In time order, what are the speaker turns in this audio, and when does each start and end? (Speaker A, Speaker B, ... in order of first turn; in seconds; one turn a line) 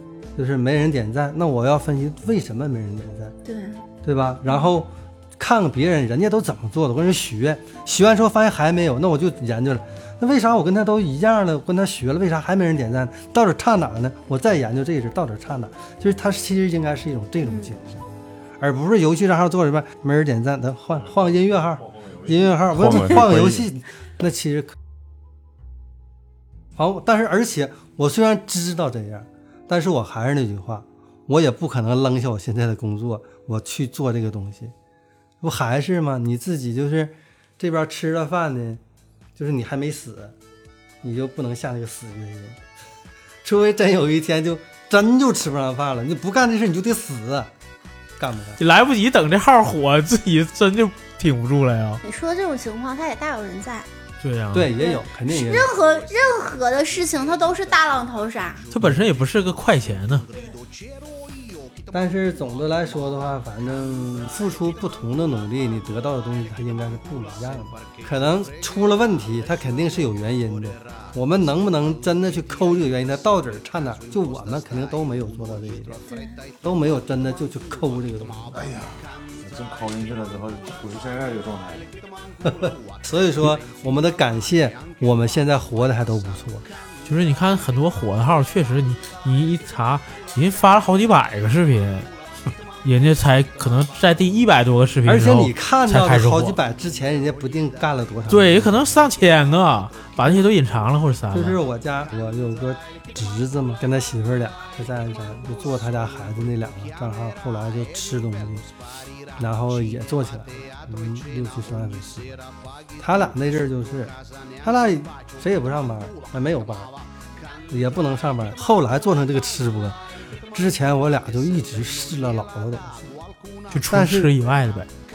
Speaker A: 0.3-3.3
Speaker B: 3.5-3.8
Speaker A: 4.0-18.1
Speaker B: 17.4-17.7
Speaker A: 18.6-24.8
Speaker C: 22.0-23.7
Speaker A: 26.8-34.7
Speaker A: 35.4-38.8
Speaker A: 39.4-40.3
Speaker A: 41.0-42.6
Speaker A: 43.4-47.5
Speaker A: 48.2-48.6
Speaker D: 48.6-52.0
Speaker B: 52.0-53.9
Speaker D: 54.2-54.7
Speaker A: 54.5-55.7
Speaker B: 54.8-58.7
Speaker D: 58.7-60.2
Speaker A: 61.9-76.0
Speaker B: 76.1-76.4
Speaker A: 76.6-78.6
Speaker C: 78.5-81.9
Speaker A: 82.4-86.7
Speaker D: 87.0-92.1
Speaker D: 92.8-96.6
Speaker A: 95.0-99.1
Speaker D: 98.3-101.6
Speaker A: 101.3-108.7
Speaker A: 109.4-112.4
Speaker A: 113.0-116.9
Speaker A: 117.7-120.0
Speaker A: 120.5-123.2
Speaker D: 123.7-124.9
Speaker A: 123.9-124.3